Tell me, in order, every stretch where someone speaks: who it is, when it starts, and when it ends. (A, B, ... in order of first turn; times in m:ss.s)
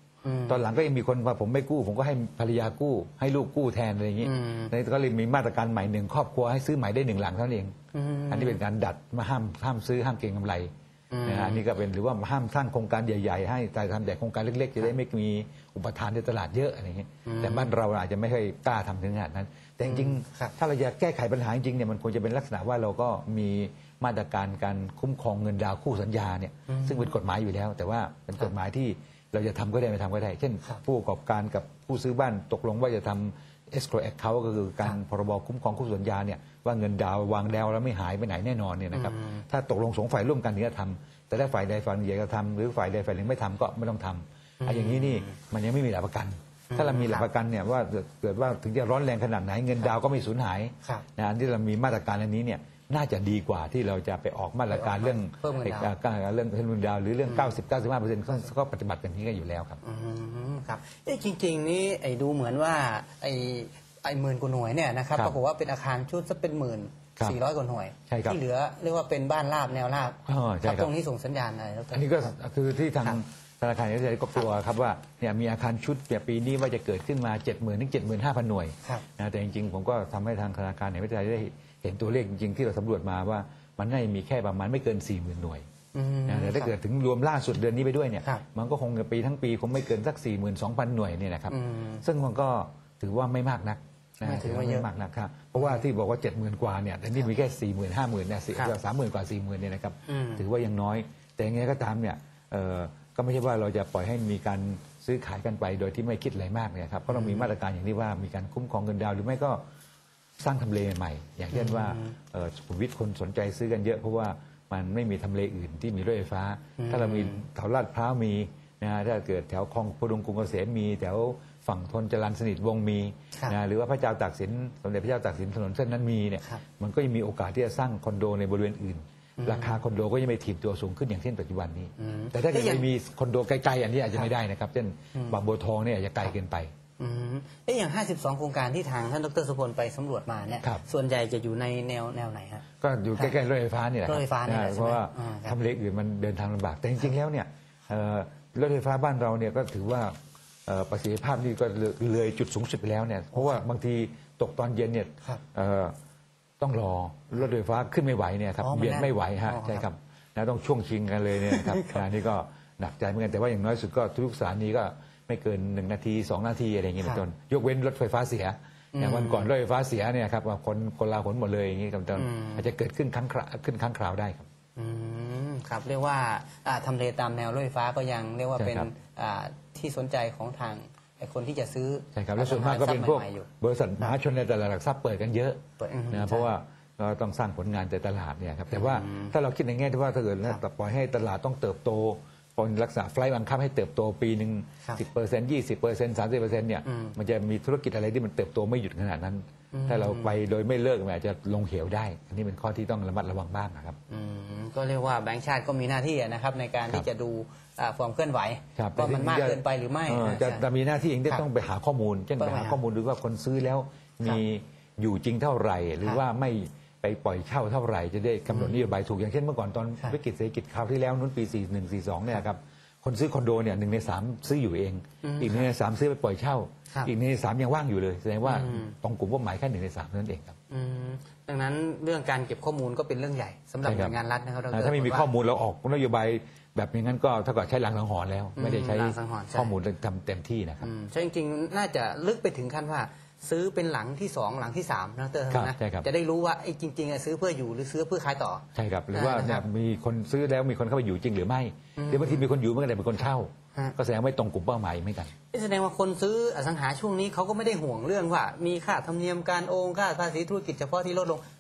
0:00.2-0:00.6 A
0:00.5-0:07.8 B
0:04.2-0:04.7 A
0:07.9-0:08.6 A
0:08.3-0:10.7 B
0:11.1-0:11.6 A
0:11.2-0:59.8 B
0:17.2-0:17.7 A
0:19.9-0:20.5 A
0:26.7-0:27.1 A
0:38.9-0:39.4 A
0:44.6-0:45.3 A
0:46.7-0:47.3 A
0:54.7-0:55.9 A
0:57.3-0:57.6 A
0:59.8-1:12.3 A
1:08.1-1:08.4 B
1:10.3-1:10.9 B
1:11.9-1:25.6 B
1:25.9-1:26.7 A
1:26.3-1:49.6 B
1:31.5-1:32.0 A
1:34.2-1:34.9 A
1:40.1-1:40.4 A
1:47.1-1:47.5 A
1:50.4-2:16.7 B
1:51.5-1:52.1 A
1:56.8-1:57.4 A
2:09.4-2:09.8 A
2:12.0-2:12.9 A
2:17.0-2:22.6 A
2:22.8-2:36.0 B
2:24.0-2:25.6 A
2:33.3-2:33.6 A
2:36.6-2:54.5 B
2:38.6-2:39.9 A
2:41.4-2:42.0 A
2:48.9-2:49.5 A
2:52.2-2:52.7 A
2:54.8-3:03.5 A
2:58.6-2:58.9 B
3:02.1-3:05.6 B
3:05.8-3:06.5 A
3:06.1-3:24.0 B
3:08.7-3:09.3 A
3:16.8-3:17.2 A
3:19.7-3:20.4 A
3:24.1-3:30.6 A
3:28.8-3:50.6 B
3:32.4-3:32.8 A
3:38.5-3:38.8 A
3:45.2-3:45.7 A
3:48.4-3:48.9 A
3:50.7-3:55.3 A
3:53.8-3:54.2 B
3:54.7-4:00.9 B
3:58.6-3:59.7 A
4:00.8-4:09.6 A
4:05.5-4:06.1 B
4:08.8-4:15.3 B
4:12.0-4:12.5 A
4:15.5-4:21.4 A